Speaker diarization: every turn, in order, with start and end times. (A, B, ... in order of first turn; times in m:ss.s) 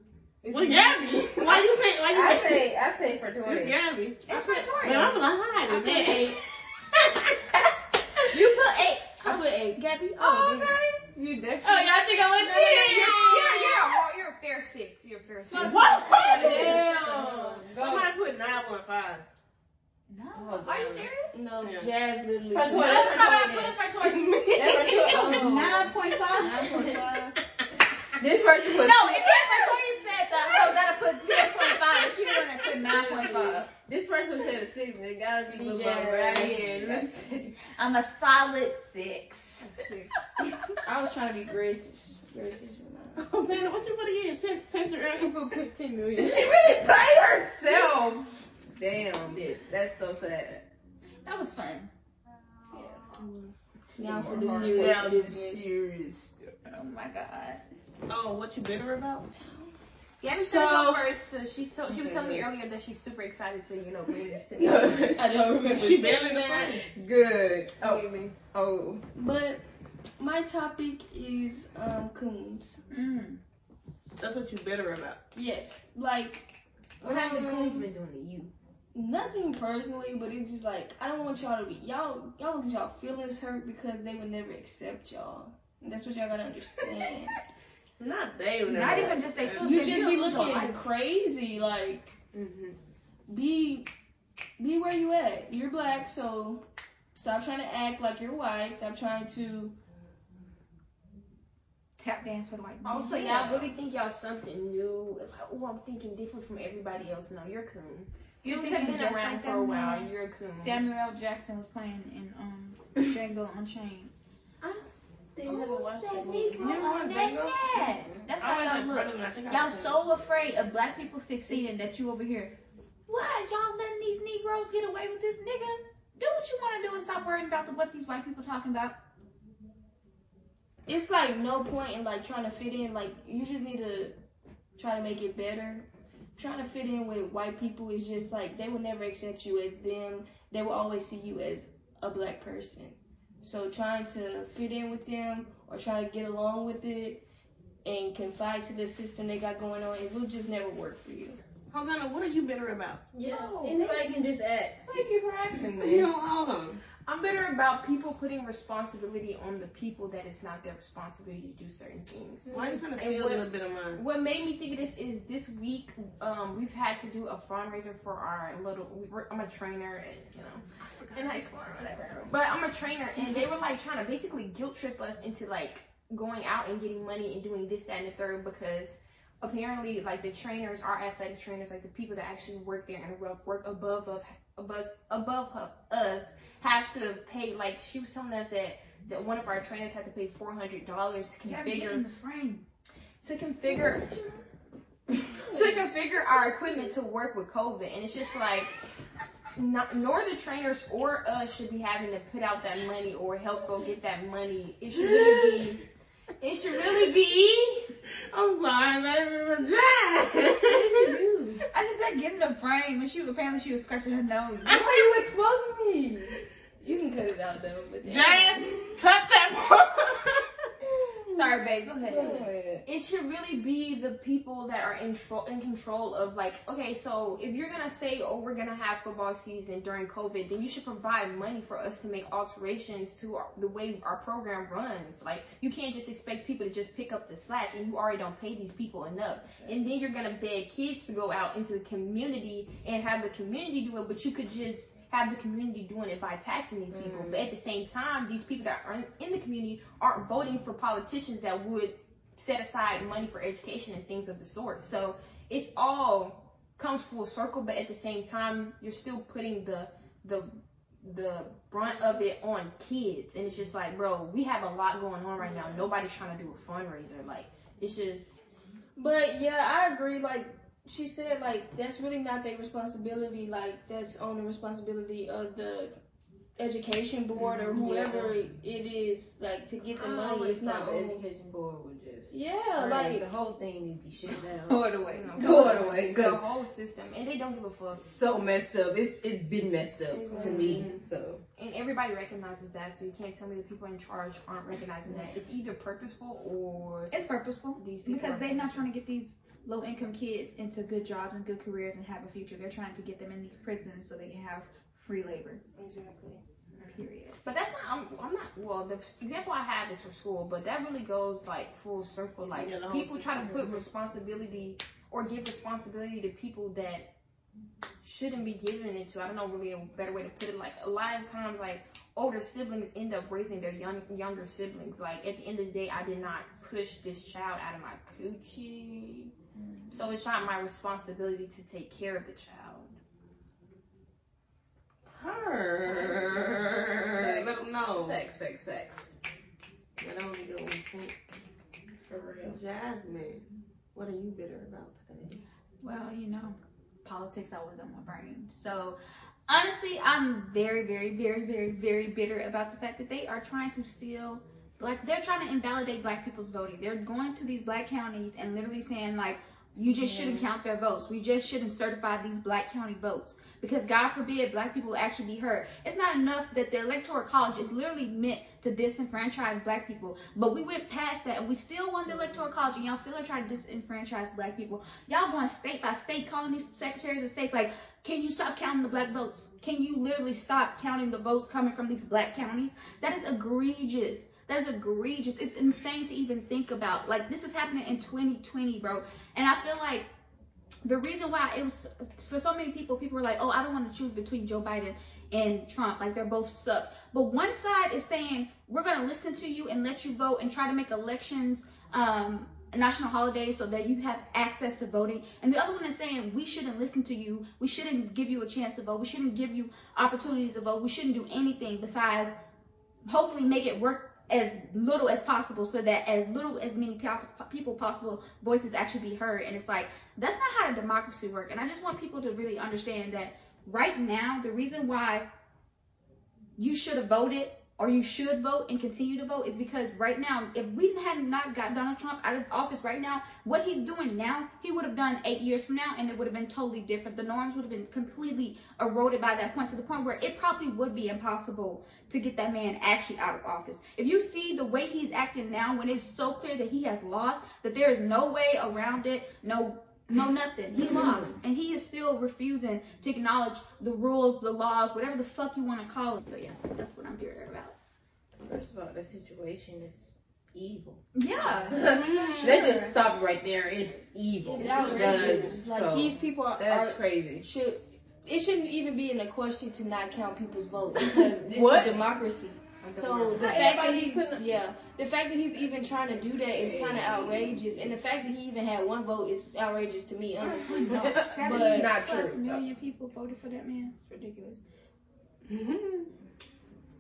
0:00.5-0:02.7 A
0:02.1-0:03.8 B
0:03.4-0:06.4 A
0:04.3-0:05.2 C
0:05.6-0:06.4 D
0:07.0-0:07.4 A
0:08.3-0:16.8 C
0:09.2-0:10.2 D
0:11.2-0:11.8 B
0:11.6-0:11.9 E
0:11.7-0:13.9 D
0:12.5-0:14.0 E
0:15.4-0:15.8 E
0:15.5-0:17.6 D
0:15.5-0:16.9 A
0:16.3-0:18.2 B
0:17.7-0:19.2 A
0:20.1-0:21.4 C
0:20.3-0:21.1 B
0:21.3-0:23.5 D
0:21.6-0:21.9 A
0:22.5-0:23.8 B
0:23.0-0:23.3 A
0:24.0-0:25.2 A
0:24.5-0:25.6 B
0:24.9-0:27.4 D
0:25.1-0:27.0 C
0:28.2-0:29.5 B
0:28.7-0:33.7 C
0:32.8-0:33.6 D
0:33.8-0:37.6 B
0:35.5-0:37.0 D
0:36.8-0:37.0 C
0:37.7-0:39.7 C
0:39.6-0:40.1 E
0:40.8-0:43.3 D
0:43.2-0:45.6 A
0:45.5-0:45.8 E
0:46.2-0:50.6 B
0:49.3-0:49.6 A
0:51.2-0:51.9 C
0:53.2-0:53.5 A
0:54.0-0:55.9 D
0:54.0-0:56.5 B
0:54.4-0:54.9 E
0:56.6-0:57.6 C
0:58.1-0:59.3 A
0:59.4-0:59.7 D
1:00.2-1:05.1 E
1:00.4-1:01.0 B
1:00.4-1:00.8 C
1:01.9-1:02.5 B
1:04.6-1:05.8 B
1:05.1-1:06.8 D
1:05.6-1:06.8 A
1:06.9-1:09.0 B
1:07.8-1:08.3 E
1:09.2-1:09.6 D
1:10.2-1:12.8 D
1:12.9-1:13.4 C
1:14.2-1:15.2 A
1:15.4-1:17.9 D
1:17.0-1:18.5 E
1:18.9-1:27.5 D
1:28.0-1:29.9 A
1:28.7-1:30.8 C
1:29.6-1:32.2 D
1:32.3-1:32.8 A
1:33.3-1:33.9 D
1:34.6-1:39.8 D
1:42.0-1:43.7 C
1:42.8-1:50.8 E
1:43.3-1:43.6 D
1:48.4-1:54.1 C
1:55.4-1:58.0 E
1:55.4-2:02.6 C
1:55.5-1:56.6 D
1:55.7-1:56.6 B
1:56.6-2:00.0 A
2:03.1-2:09.0 C
2:10.9-2:14.2 D
2:14.8-2:27.2 D
2:27.8-2:31.4 D
2:31.7-2:33.0 A
2:33.1-2:35.1 B
2:33.2-2:33.9 E
2:33.4-2:34.0 D
2:35.5-2:36.1 E
2:35.6-2:36.8 A
2:37.1-3:12.0 E
2:42.5-2:44.0 A
2:50.8-2:52.2 A
3:11.4-3:12.6 C
3:13.2-3:14.1 E
3:13.6-3:14.4 D
3:15.3-3:15.9 D
3:15.4-3:18.7 E
3:19.6-3:25.8 E
3:25.1-3:25.6 A
3:26.5-3:27.8 C
3:28.3-3:31.2 A
3:30.7-3:34.8 C
3:34.7-3:35.3 A
3:34.7-3:38.7 D
3:38.0-3:40.5 A
3:41.3-3:42.4 C
3:42.1-3:42.8 B
3:42.1-3:42.5 D
3:42.8-4:20.5 E
4:06.9-4:07.5 B
4:21.0-4:28.4 E
4:21.8-4:22.2 D
4:29.0-4:36.0 D
4:36.6-4:41.2 D
4:37.5-4:37.9 E
4:37.8-4:38.3 B
4:40.0-4:44.8 B
4:42.3-4:43.3 D
4:44.7-4:45.4 C
4:45.1-4:48.1 E
4:45.4-4:46.4 B
4:47.9-4:51.4 B
4:50.1-4:50.9 D
4:50.3-4:51.0 E
4:51.6-4:57.1 E
4:57.1-5:05.6 C
4:57.8-4:58.9 E
5:05.8-5:06.4 E
5:06.8-5:07.4 C
5:07.4-5:17.1 E
5:12.6-5:13.9 A
5:18.0-5:29.3 E
5:29.9-5:33.0 E
5:35.1-5:38.2 A
5:35.8-5:39.2 B
5:40.0-5:41.2 A
5:42.1-5:42.6 B
5:42.5-5:45.4 A
5:45.8-6:30.1 C
6:00.0-6:00.4 B
6:30.8-6:52.3 C
6:53.1-7:05.3 C
7:06.6-7:37.8 C
7:38.4-7:47.5 B
7:41.1-7:41.8 C
7:41.9-7:42.8 E
7:41.9-7:42.9 D
7:42.3-7:42.6 A
7:44.5-8:02.0 D
7:44.6-7:45.5 E
7:44.8-7:45.4 A
7:51.5-7:52.2 E
7:52.8-7:53.8 E
7:53.3-7:54.5 B
7:56.3-7:57.9 B
8:00.4-8:04.6 C
8:00.8-8:02.6 B
8:05.5-8:06.1 A